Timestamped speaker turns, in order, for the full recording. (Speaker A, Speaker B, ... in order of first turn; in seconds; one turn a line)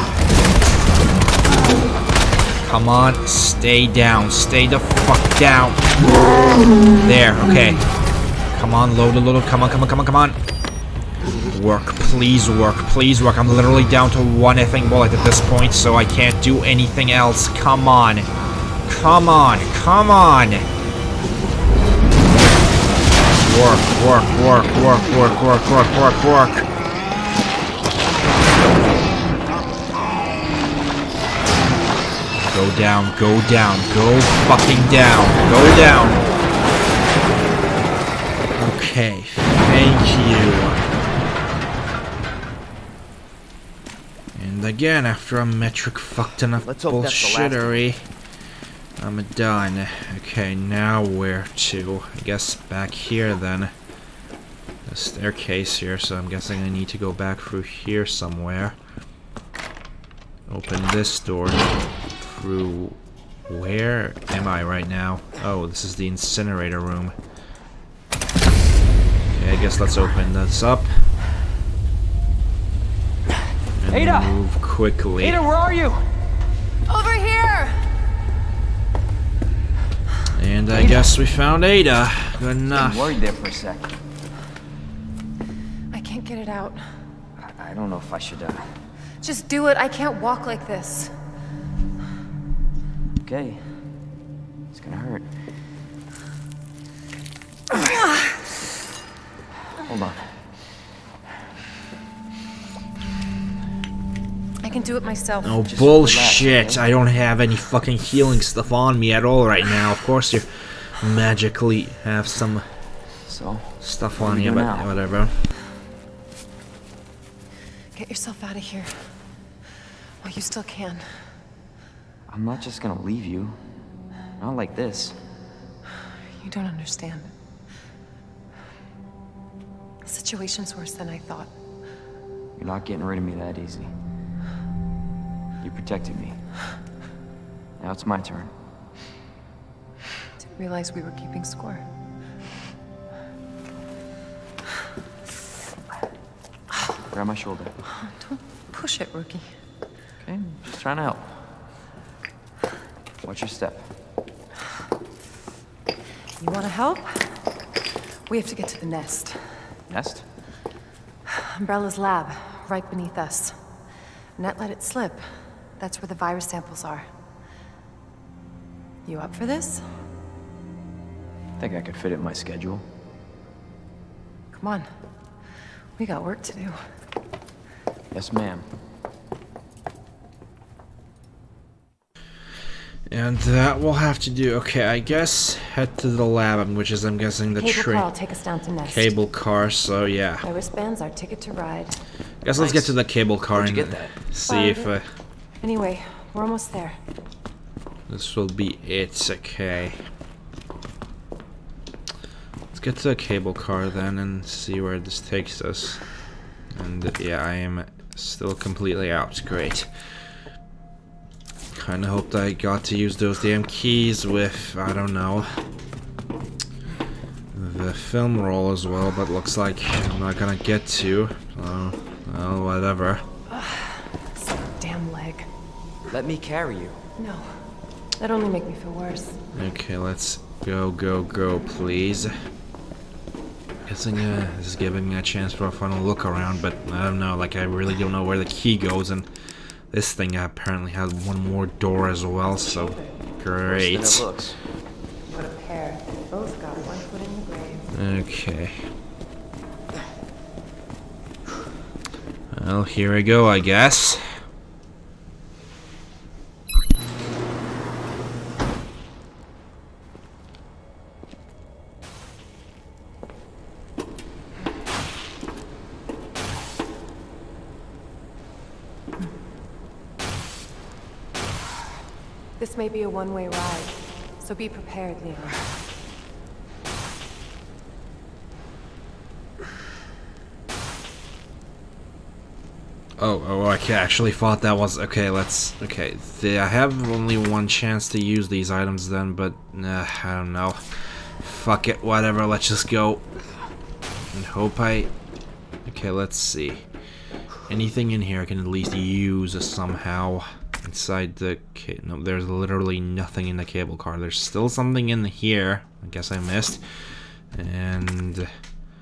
Speaker A: 2.6-5.8
Speaker A: 7.0-7.8
Speaker A: 8.5-10.4
Speaker A: 11.5-18.3
Speaker A: 18.9-20.6
Speaker A: 23.3-26.7
Speaker A: 32.4-36.2
Speaker A: 38.5-40.8
Speaker A: 44.3-48.1
Speaker B: 46.6-47.9
Speaker A: 49.0-53.7
Speaker A: 54.9-58.8
Speaker A: 60.5-67.1
Speaker A: 69.3-71.0
Speaker A: 73.8-75.4
Speaker B: 73.9-74.4
Speaker B: 75.2-76.0
Speaker C: 76.9-77.8
Speaker A: 80.3-83.2
Speaker B: 82.7-84.0
Speaker C: 85.9-86.8
Speaker B: 87.4-88.7
Speaker C: 89.2-91.1
Speaker B: 93.2-93.7
Speaker B: 94.7-95.3
Speaker B: 99.8-100.3
Speaker C: 104.6-105.6
Speaker A: 105.4-112.7
Speaker B: 105.6-106.8
Speaker B: 113.2-114.9
Speaker A: 113.8-115.3
Speaker C: 117.9-119.1
Speaker C: 120.2-121.2
Speaker B: 122.3-123.6
Speaker B: 124.4-125.2
Speaker C: 126.3-127.3
Speaker C: 130.0-131.5
Speaker B: 132.6-133.9
Speaker B: 135.6-136.4
Speaker B: 137.8-138.5
Speaker C: 140.4-141.8
Speaker B: 147.1-147.7
Speaker C: 147.9-149.5
Speaker B: 150.2-151.3
Speaker B: 153.2-153.9
Speaker C: 156.4-157.4
Speaker C: 158.3-159.6
Speaker B: 159.9-160.2
Speaker C: 161.3-163.6
Speaker C: 164.4-167.1
Speaker C: 169.1-169.9
Speaker B: 171.6-172.8
Speaker C: 174.5-174.9
Speaker C: 176.0-176.8
Speaker B: 178.1-178.7
Speaker A: 183.1-188.1
Speaker C: 187.6-189.1
Speaker A: 188.8-190.4
Speaker C: 190.4-192.0
Speaker A: 192.4-195.1
Speaker B: 192.5-193.0
Speaker B: 193.5-194.1
Speaker C: 194.4-194.9
Speaker C: 195.6-197.0
Speaker A: 198.1-200.0
Speaker A: 202.7-206.0
Speaker A: 206.7-209.9
Speaker A: 211.7-215.6
Speaker A: 217.5-223.2
Speaker C: 223.5-225.5
Speaker B: 226.1-227.0
Speaker C: 227.2-227.6
Speaker C: 228.2-229.4
Speaker A: 229.5-232.3
Speaker A: 233.8-239.3
Speaker A: 239.9-244.2
Speaker C: 242.4-243.2
Speaker B: 243.7-244.6
Speaker C: 245.3-247.9
Speaker A: 247.9-248.8
Speaker A: 252.5-254.4
Speaker C: 272.6-275.8
Speaker A: 283.2-293.2
Speaker A: 294.3-295.1
Speaker A: 295.9-296.8
Speaker A: 297.7-306.8
Speaker A: 307.5-308.5